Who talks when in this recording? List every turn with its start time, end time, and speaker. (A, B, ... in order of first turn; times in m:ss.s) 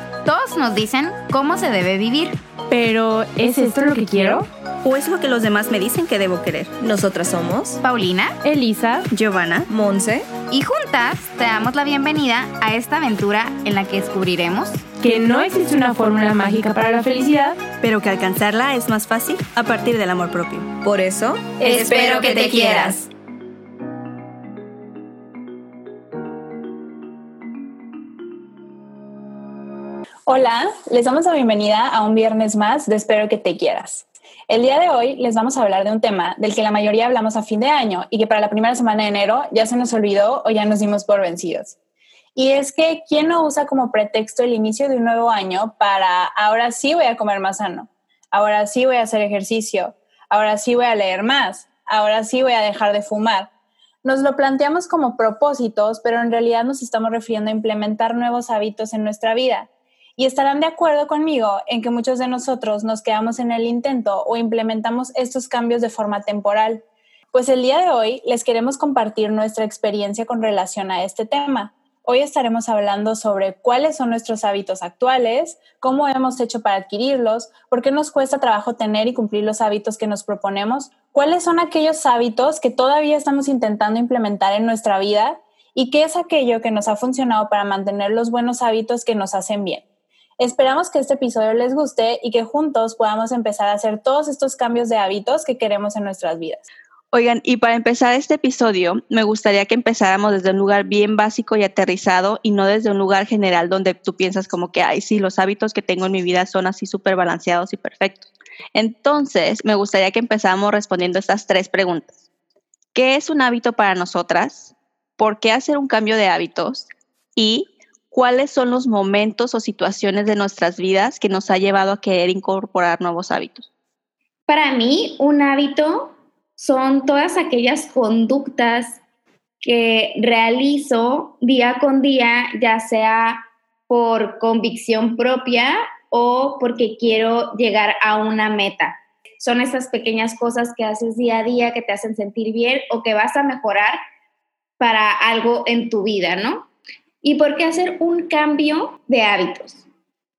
0:00.2-0:02.4 A
0:02.7-0:04.5 B
0:04.8-0:06.7 C
0:06.8-0:07.8 D
0:07.8-0:08.4 A
0:08.4-0:09.1 B
0:09.1-0:09.7 C
0:09.7-0:10.3 D
0:10.5-0:14.9 A
0:15.0-0:17.6 B
0:17.8-0:20.7 C
0:20.8-0:23.0 D
0:21.7-0:23.0 C
0:30.3-0:41.7 E
0:42.3-0:53.5 E
0:54.0-1:29.8 E
1:30.4-1:36.6 E
1:37.1-1:52.2 F
1:52.9-2:03.7 F
2:04.5-2:09.0 G
2:09.6-2:24.0 G
2:24.8-2:26.7 G
2:27.2-2:29.8 G